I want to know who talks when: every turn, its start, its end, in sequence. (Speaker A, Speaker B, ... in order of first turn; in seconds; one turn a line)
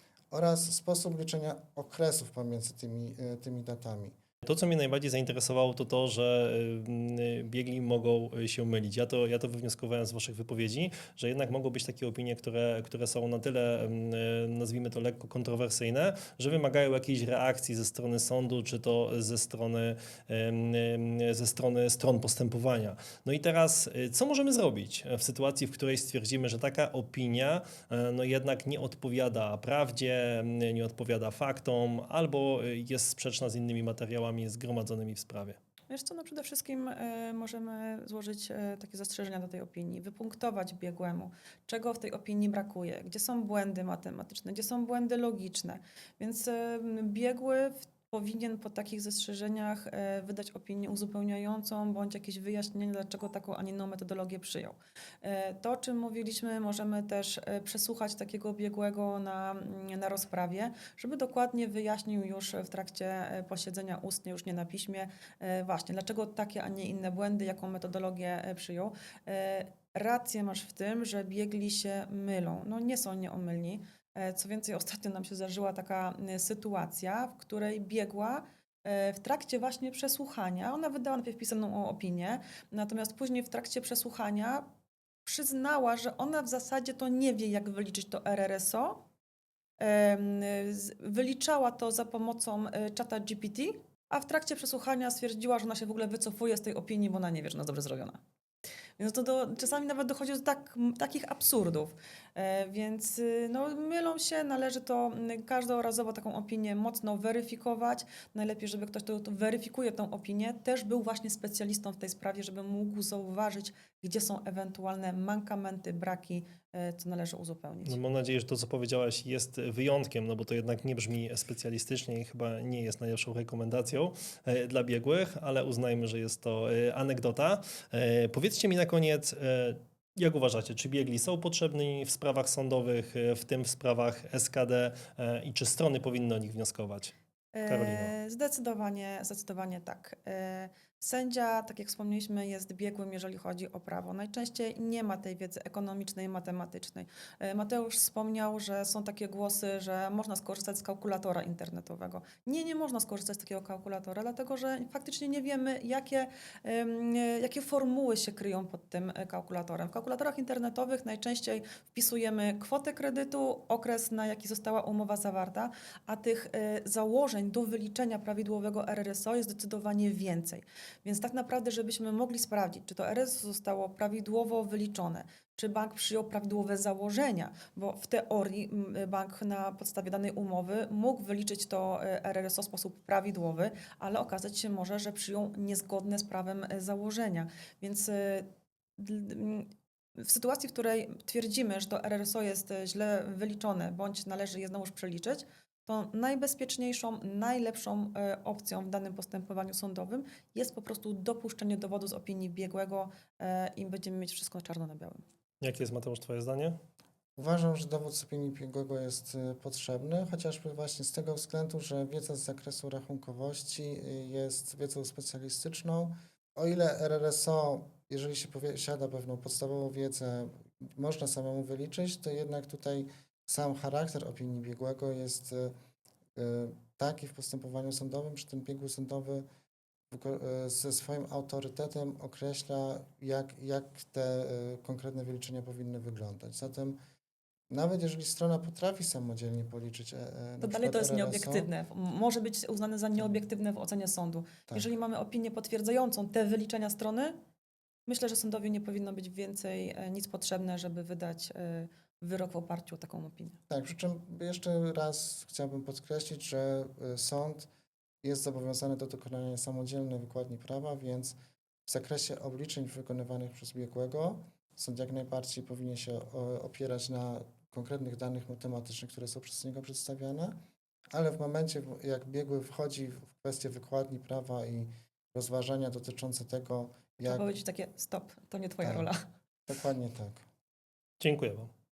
Speaker A: 0.3-4.2
Speaker B: 4.4-35.6
Speaker C: 35.9-84.7
Speaker C: 85.2-89.0
Speaker C: 89.8-98.2
Speaker C: 99.0-118.0
Speaker B: 117.8-137.1
Speaker C: 137.5-205.2
Speaker B: 137.7-138.1
Speaker B: 205.6-206.8
Speaker A: 207.3-225.7
Speaker A: 226.3-229.4
Speaker A: 230.1-237.0
Speaker A: 237.7-241.7
Speaker C: 240.6-247.4
Speaker C: 248.1-253.6
Speaker A: 253.7-257.7
Speaker A: 258.2-261.3
Speaker A: 261.9-270.6
Speaker A: 271.1-277.5
Speaker C: 277.2-279.2
Speaker A: 278.8-279.1
Speaker A: 279.7-280.4
Speaker B: 281.2-281.7